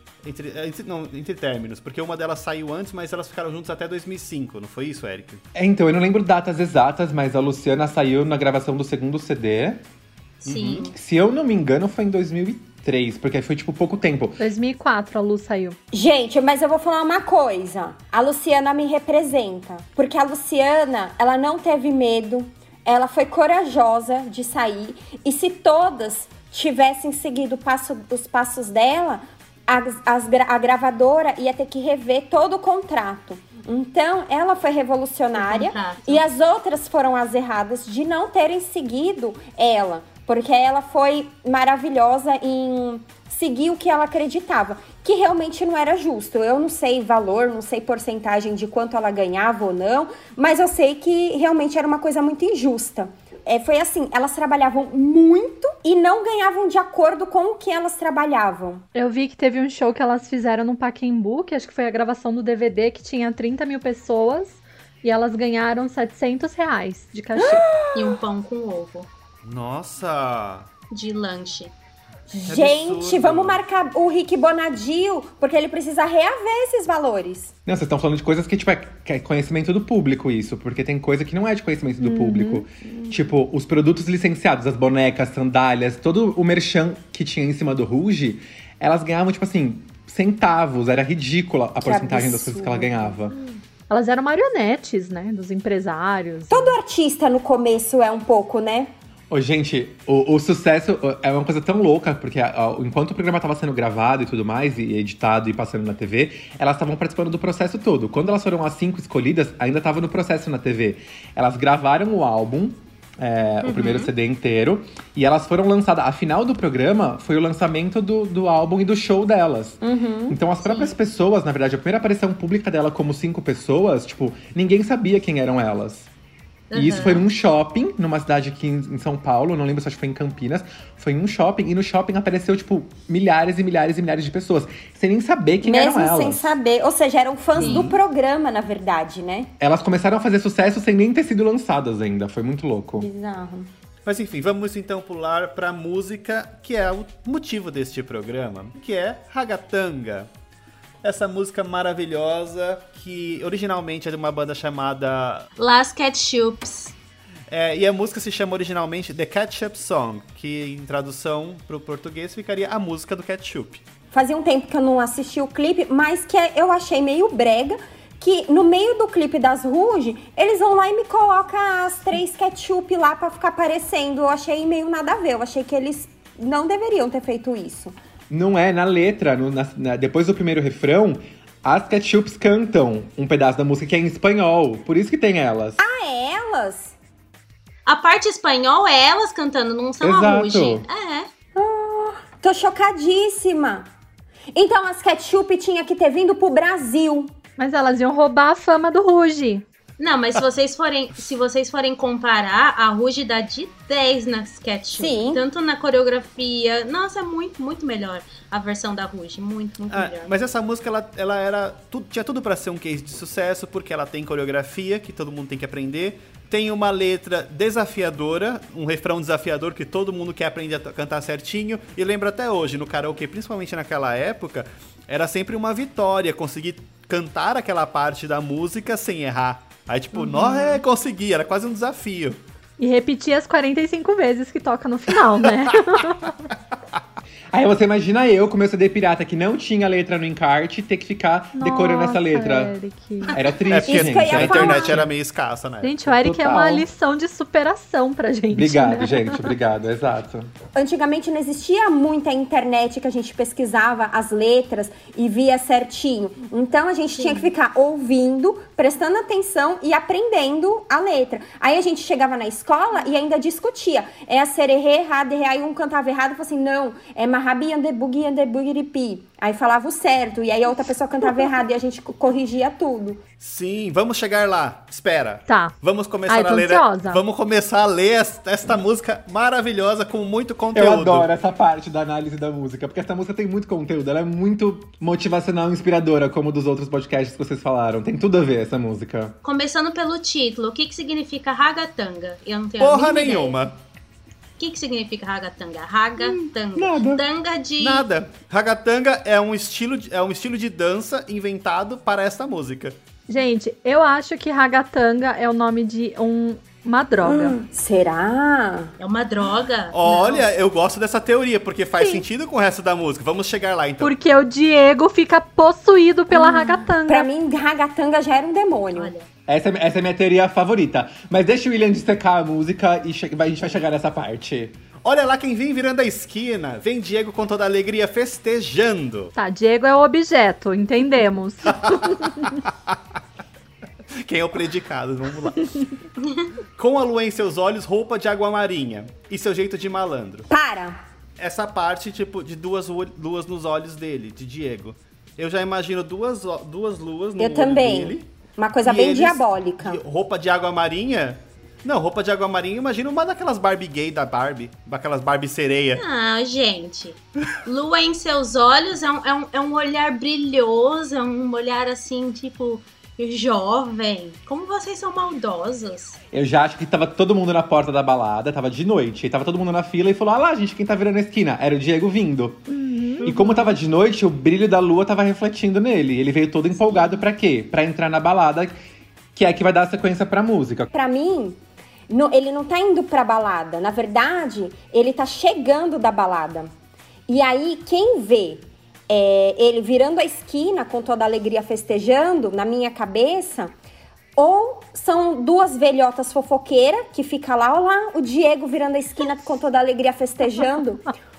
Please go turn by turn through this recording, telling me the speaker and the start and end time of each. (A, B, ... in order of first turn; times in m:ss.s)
0:00.2-0:05.4 A
0:05.5-0:09.8 B
0:10.4-0:10.9 A
0:10.4-0:10.9 C
0:10.9-0:14.4 B
0:14.4-0:15.8 D
0:15.9-0:58.8 E
0:35.3-0:36.2 C
0:58.9-1:07.7 D
1:07.4-1:08.2 E
1:07.9-1:09.1 C
1:09.4-1:10.7 A
1:10.9-1:11.7 C
1:12.3-1:17.5 E
1:12.4-1:13.6 A
1:17.7-1:33.3 B
1:22.0-1:22.6 D
1:22.9-1:23.2 E
1:31.8-1:33.5 E
1:33.9-1:36.8 D
1:36.5-1:38.9 E
1:39.3-2:06.1 B
1:53.6-1:54.1 C
1:59.8-2:00.4 E
2:00.7-2:00.9 C
2:06.7-2:07.3 C
2:06.7-2:16.6 B
2:15.6-2:19.5 E
2:17.6-2:18.0 B
2:17.6-2:17.9 C
2:19.6-2:23.1 B
2:23.0-2:23.7 E
2:24.0-2:30.3 A
2:31.0-2:35.5 A
2:35.6-2:36.9 C
2:37.5-2:43.8 A
2:44.1-2:58.0 E
2:58.3-3:05.8 B
3:05.8-3:06.9 E
3:07.8-3:11.3 C
3:10.0-3:10.8 B
3:11.6-3:13.9 E
3:14.5-3:17.3 E
3:17.6-3:19.6 D
3:20.0-3:30.3 C
3:25.0-3:25.4 E
3:29.9-3:52.4 A
3:50.2-3:50.8 C
3:52.8-3:56.4 D
3:57.5-4:02.7 B
4:01.6-4:03.4 D
4:03.3-4:05.1 B
4:03.7-4:06.0 A
4:03.8-4:05.1 E
4:05.8-4:09.5 D
4:06.1-4:06.9 B
4:08.5-4:10.5 B
4:10.7-4:33.2 E
4:33.4-4:41.3 A
4:35.5-4:35.7 D
4:36.3-4:37.2 D
4:40.7-4:49.4 B
4:49.4-4:53.6 C
4:52.8-4:53.8 A
4:54.6-4:58.0 C
4:56.7-4:57.2 B
4:57.8-5:02.9 A
5:03.3-5:07.6 D
5:07.2-5:08.9 E
5:09.0-5:10.5 C
5:09.9-5:14.1 A
5:12.0-5:12.2 D
5:14.0-5:17.3 D
5:16.3-5:19.1 E
5:18.9-5:19.3 C
5:19.5-5:24.8 B
5:25.0-5:29.3 A
5:29.4-5:32.4 D
5:31.7-5:33.0 A
5:34.2-5:35.8 A
5:36.8-5:40.5 A
5:40.5-5:41.0 E
5:41.4-5:48.3 A
5:47.4-5:50.0 E
5:48.8-5:56.0 A
5:56.0-6:06.2 C
6:06.3-6:12.6 B
6:12.7-6:13.2 D
6:13.2-6:13.7 C
6:13.2-6:18.7 B
6:19.3-6:20.9 B
6:20.9-6:26.7 E
6:27.3-6:33.7 E
6:34.4-6:41.1 E